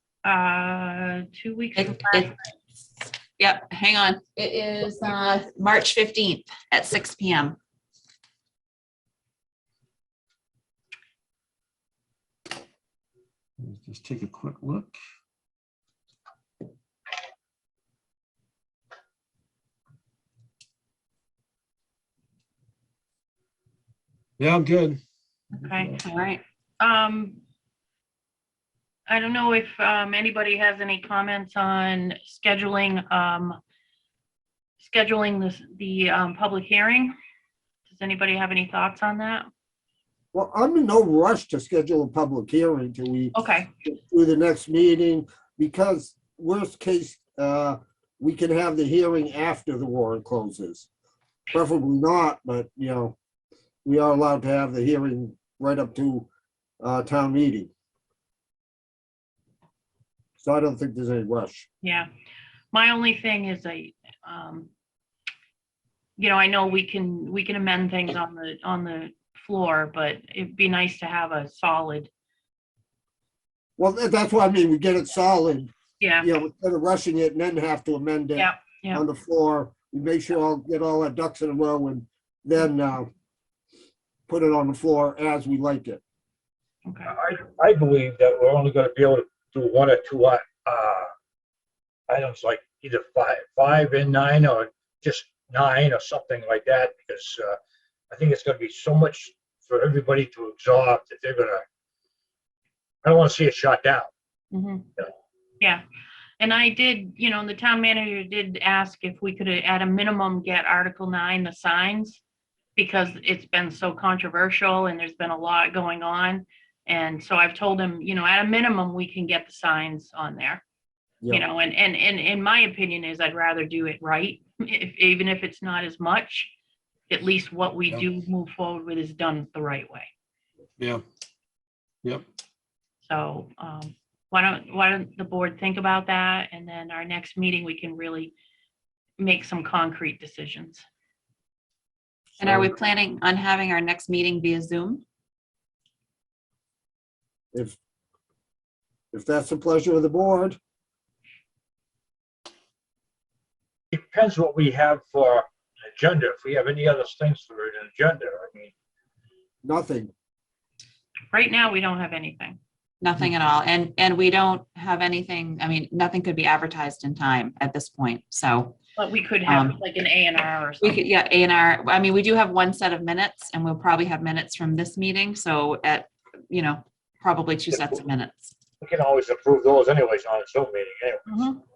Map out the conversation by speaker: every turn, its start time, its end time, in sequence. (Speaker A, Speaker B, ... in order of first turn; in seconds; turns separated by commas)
Speaker A: 0.2-2.4, Speaker B: 1.8-2.3, Speaker B: 3.4-7.6, Speaker C: 13.6-15.0, Speaker C: 24.4-25.0, Speaker A: 25.6-25.9, Speaker C: 25.6-26.0, Speaker B: 26.0-26.4, Speaker A: 26.8-27.4, Speaker A: 29.1-33.6, Speaker A: 34.8-37.1, Speaker A: 37.9-39.5, Speaker D: 40.3-50.9, Speaker A: 43.3-43.7, Speaker D: 51.5-53.1, Speaker D: 53.8-56.3, Speaker D: 56.8-57.7, Speaker D: 60.4-61.7, Speaker A: 61.8-62.1, Speaker A: 62.7-64.7, Speaker A: 66.2-72.1, Speaker D: 73.8-83.1, Speaker A: 76.0-76.3, Speaker A: 78.4-79.0, Speaker D: 84.3-86.0, Speaker A: 86.9-87.1, Speaker E: 87.1-91.1, Speaker E: 92.1-97.6, Speaker E: 98.1-101.6, Speaker E: 103.0-104.1, Speaker A: 104.5-104.9, Speaker A: 106.4-112.2, Speaker A: 112.8-120.6, Speaker A: 121.3-126.5, Speaker A: 127.1-130.1, Speaker A: 133.0-138.3, Speaker A: 139.2-140.8, Speaker B: 142.4-145.0, Speaker D: 142.4-142.7, Speaker D: 149.1-150.6, Speaker E: 153.9-158.7, Speaker D: 159.6-160.1, Speaker A: 161.3-162.6, Speaker B: 163.0-168.8, Speaker A: 168.9-171.0, Speaker B: 169.4-169.8, Speaker B: 170.8-178.5, Speaker E: 177.7-178.0, Speaker E: 178.8-181.2, Speaker A: 181.3-181.6